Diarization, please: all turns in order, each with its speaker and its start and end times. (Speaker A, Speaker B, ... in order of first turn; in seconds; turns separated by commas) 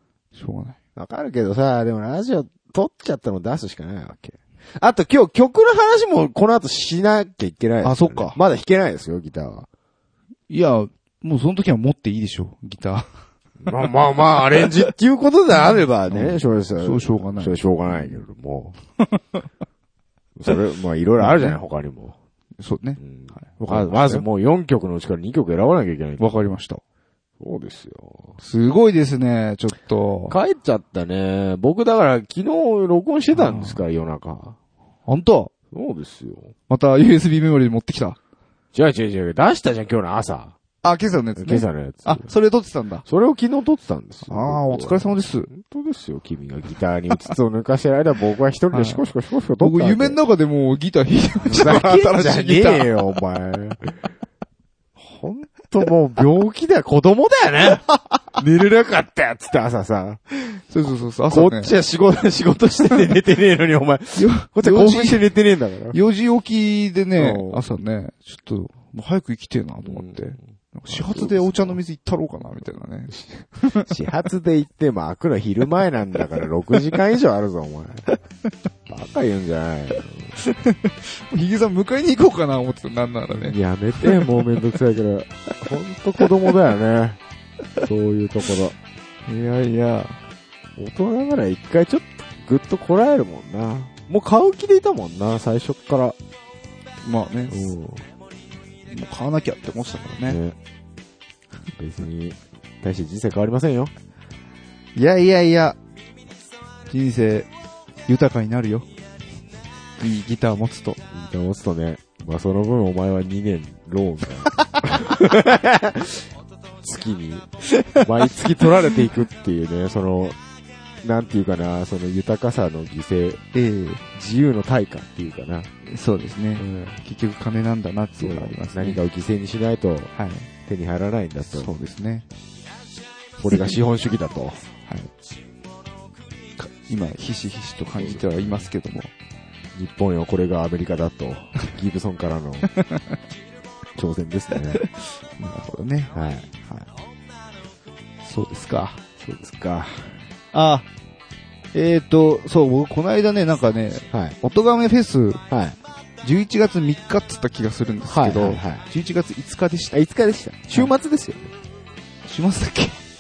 Speaker A: 0.3-0.8, Speaker B: 0.9-9.7, Speaker A: 7.8-8.4, Speaker A: 10.5-13.1, Speaker B: 13.6-18.7, Speaker A: 16.1-18.2, Speaker B: 20.4-22.1, Speaker A: 21.2-21.6, Speaker A: 22.6-24.2, Speaker B: 23.0-26.5, Speaker A: 26.2-26.8, Speaker B: 27.4-28.3, Speaker A: 28.4-30.4, Speaker B: 30.3-34.6, Speaker A: 33.3-33.8, Speaker A: 35.0-35.5, Speaker B: 35.7-36.5, Speaker A: 36.7-38.2, Speaker B: 38.7-40.5, Speaker A: 40.8-43.0, Speaker B: 41.4-42.3, Speaker B: 43.1-50.2, Speaker A: 44.3-45.5, Speaker A: 48.7-49.0, Speaker A: 49.6-52.9, Speaker B: 51.4-53.9, Speaker B: 55.0-60.2, Speaker A: 60.5-61.7, Speaker B: 61.3-66.0, Speaker A: 64.1-65.2, Speaker A: 65.9-73.9, Speaker B: 67.2-67.6, Speaker B: 69.8-70.2, Speaker B: 70.9-71.8, Speaker B: 73.1-78.0, Speaker B: 78.9-80.4, Speaker A: 80.4-84.3, Speaker B: 83.3-87.2, Speaker B: 87.8-88.8, Speaker A: 89.3-90.2, Speaker B: 90.8-96.2, Speaker A: 97.0-97.6, Speaker B: 97.5-98.0, Speaker A: 98.9-100.4, Speaker B: 100.2-100.5, Speaker B: 101.8-103.9, Speaker A: 105.0-105.8, Speaker A: 106.9-107.5, Speaker A: 108.1-108.8, Speaker A: 110.0-111.0, Speaker B: 111.1-116.2, Speaker B: 116.8-117.5, Speaker A: 117.8-118.1, Speaker B: 118.0-120.4, Speaker B: 121.0-123.4, Speaker A: 123.5-124.0, Speaker B: 124.1-125.7, Speaker A: 125.8-129.0, Speaker B: 126.6-127.0, Speaker B: 128.2-130.1, Speaker A: 130.1-130.5, Speaker B: 130.7-131.7, Speaker A: 131.5-132.2, Speaker B: 133.4-134.6, Speaker A: 133.5-133.8, Speaker A: 136.6-139.1, Speaker B: 137.9-138.7, Speaker B: 139.7-142.7, Speaker A: 142.7-143.0, Speaker B: 143.9-144.8, Speaker A: 144.7-146.9, Speaker B: 146.1-146.5, Speaker A: 148.2-149.0, Speaker B: 149.2-150.1, Speaker A: 150.5-150.9, Speaker A: 151.7-155.4, Speaker B: 155.5-155.8, Speaker A: 156.2-160.0, Speaker B: 158.1-158.8, Speaker B: 159.9-161.5, Speaker A: 162.2-163.0